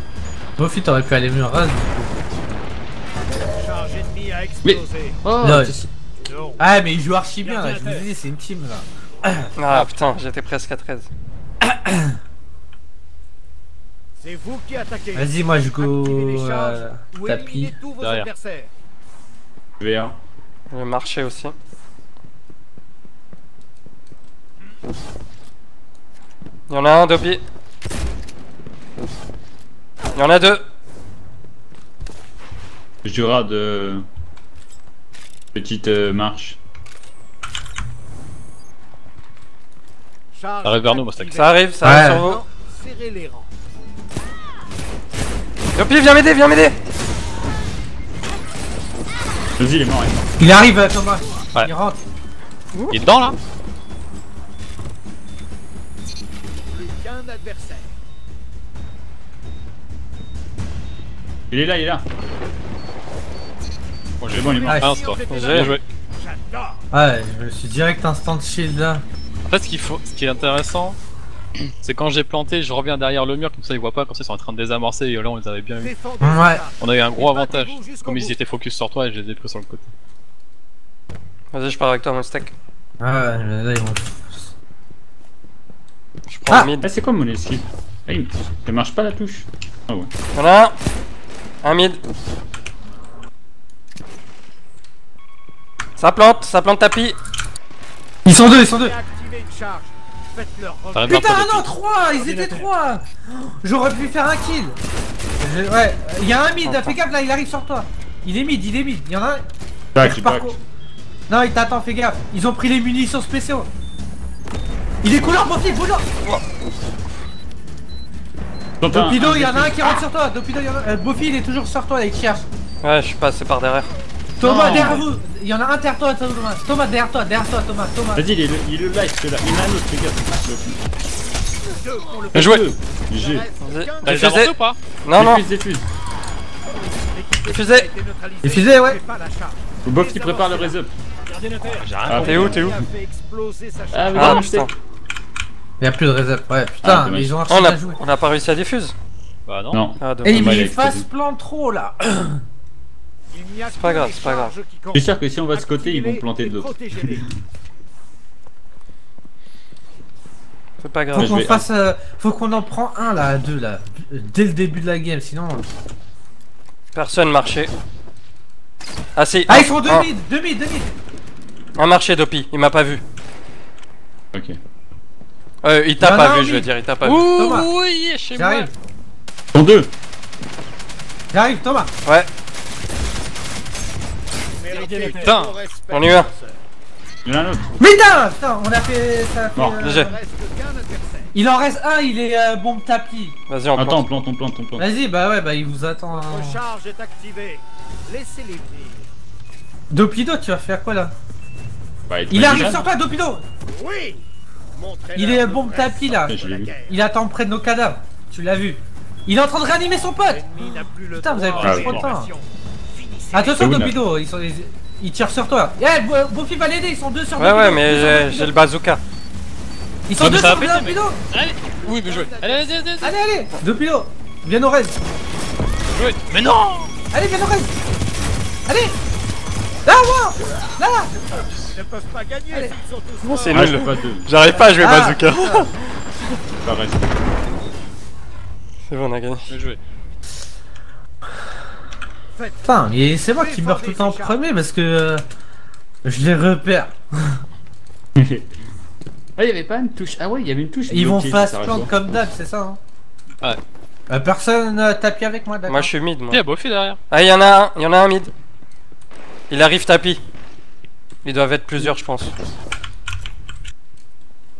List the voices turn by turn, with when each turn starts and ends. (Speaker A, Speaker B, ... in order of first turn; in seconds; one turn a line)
Speaker A: 0.6-2.2
Speaker B: 3.4-5.2
Speaker C: 4.6-5.8
Speaker A: 5.4-5.8
Speaker B: 6.2-6.6
Speaker A: 6.6-9.8
Speaker D: 9.6-11.1
Speaker A: 11.6-12.2
Speaker B: 14.2-18.7
Speaker A: 15.1-17.7
Speaker E: 18.0-18.3
Speaker C: 19.8-20.2
Speaker D: 20.7-21.5
Speaker D: 26.7-27.4
Speaker D: 30.1-30.6
Speaker C: 33.0-34.0
Speaker C: 35.5-36.6
Speaker B: 40.3-43.5
Speaker E: 40.6-41.5
Speaker D: 41.3-42.4
Speaker A: 41.8-42.3
Speaker D: 45.7-46.7
Speaker C: 49.6-50.2
Speaker A: 50.4-52.0
Speaker E: 52.9-53.4
Speaker B: 56.7-57.9
Speaker C: 61.5-62.0
Speaker E: 64.2-65.8
Speaker C: 64.3-64.8
Speaker B: 64.3-66.8
Speaker A: 64.7-64.9
Speaker D: 65.3-65.8
Speaker A: 66.9-69.0
Speaker E: 69.5-71.0
Speaker E: 71.6-75.9
Speaker B: 75.8-78.3
Speaker A: 76.2-76.6
Speaker E: 76.8-79.9
Speaker D: 81.5-82.5
Speaker A: 83.0-84.5
Speaker D: 86.3-86.9
Speaker C: 86.8-90.1
Speaker D: 90.3-90.7
Speaker D: 91.6-92.0
Speaker D: 96.0-97.2
Speaker A: 98.2-99.0
Speaker B: 98.6-101.1
Speaker E: 100.9-101.7
Speaker A: 101.0-104.8
Speaker A: 105.4-109.4
Speaker D: 106.6-106.9
Speaker C: 109.9-110.5
Speaker A: 110.0-110.6
Speaker A: 111.3-113.7
Speaker A: 115.0-116.0
Speaker C: 118.8-119.8
Speaker A: 118.9-122.4
Speaker D: 122.8-123.9
Speaker A: 124.4-128.2
Speaker E: 124.4-125.0
Speaker D: 124.6-125.0
Speaker C: 128.1-130.8
Speaker B: 131.7-134.4
Speaker C: 132.3-133.5
Speaker D: 133.6-135.4
Speaker E: 134.0-134.8
Speaker C: 135.1-135.9
Speaker B: 136.7-140.8
Speaker D: 137.4-137.9
Speaker A: 138.4-139.0
Speaker C: 139.8-140.9
Speaker E: 141.7-142.6
Speaker C: 142.0-142.7
Speaker D: 142.1-142.8
Speaker B: 142.3-144.7
Speaker C: 143.9-144.7
Speaker D: 144.1-144.7
Speaker A: 145.8-148.0
Speaker C: 146.8-147.3
Speaker D: 147.5-148.9
Speaker E: 149.4-149.8
Speaker C: 149.7-151.1
Speaker D: 150.0-150.5
Speaker A: 150.2-152.4
Speaker B: 153.3-157.2
Speaker D: 153.7-154.5
Speaker C: 154.9-157.3
Speaker D: 160.8-161.5
Speaker A: 161.1-165.6
Speaker C: 161.1-161.6
Speaker D: 166.9-167.7
Speaker D: 169.2-170.1
Speaker A: 169.5-170.9
Speaker D: 171.8-173.0
Speaker C: 174.3-174.6
Speaker D: 175.6-177.3
Speaker A: 176.0-176.7
Speaker E: 177.0-178.7
Speaker A: 177.3-177.7
Speaker A: 178.3-178.7
Speaker C: 179.5-179.9
Speaker A: 181.3-181.9
Speaker B: 184.6-186.6
Speaker E: 185.1-185.6
Speaker D: 185.9-186.3
Speaker C: 187.2-187.8
Speaker A: 187.8-190.2
Speaker C: 189.6-189.9
Speaker D: 189.8-190.1
Speaker B: 189.8-191.3
Speaker A: 191.3-193.3
Speaker D: 193.5-194.0
Speaker C: 193.8-194.8
Speaker A: 194.8-196.6
Speaker B: 196.1-199.1
Speaker A: 199.9-201.1
Speaker C: 202.1-202.8
Speaker A: 202.3-203.4
Speaker B: 203.7-207.0
Speaker A: 205.1-210.5
Speaker C: 206.2-206.7
Speaker B: 210.3-213.7
Speaker A: 211.1-212.3
Speaker E: 211.6-212.1
Speaker C: 211.6-211.9
Speaker A: 213.3-218.5
Speaker C: 213.6-214.0
Speaker D: 217.4-219.0
Speaker A: 220.1-221.2
Speaker E: 220.2-223.1
Speaker B: 221.7-222.8
Speaker A: 223.0-225.0
Speaker E: 225.9-226.9
Speaker A: 227.1-227.7
Speaker A: 228.7-228.9
Speaker A: 229.8-231.4
Speaker B: 231.7-233.9
Speaker D: 233.2-235.7
Speaker C: 233.5-234.3
Speaker A: 234.6-235.7
Speaker C: 236.6-237.1
Speaker D: 238.8-239.5
Speaker E: 239.5-239.8
Speaker B: 242.3-242.6
Speaker A: 242.6-245.2
Speaker B: 243.4-244.4
Speaker A: 246.0-247.4
Speaker C: 248.2-248.5
Speaker C: 249.3-251.9
Speaker A: 250.9-252.8
Speaker A: 254.1-255.9
Speaker D: 255.7-256.4
Speaker E: 256.3-257.0
Speaker D: 257.1-258.3
Speaker D: 259.5-260.2
Speaker D: 261.2-262.3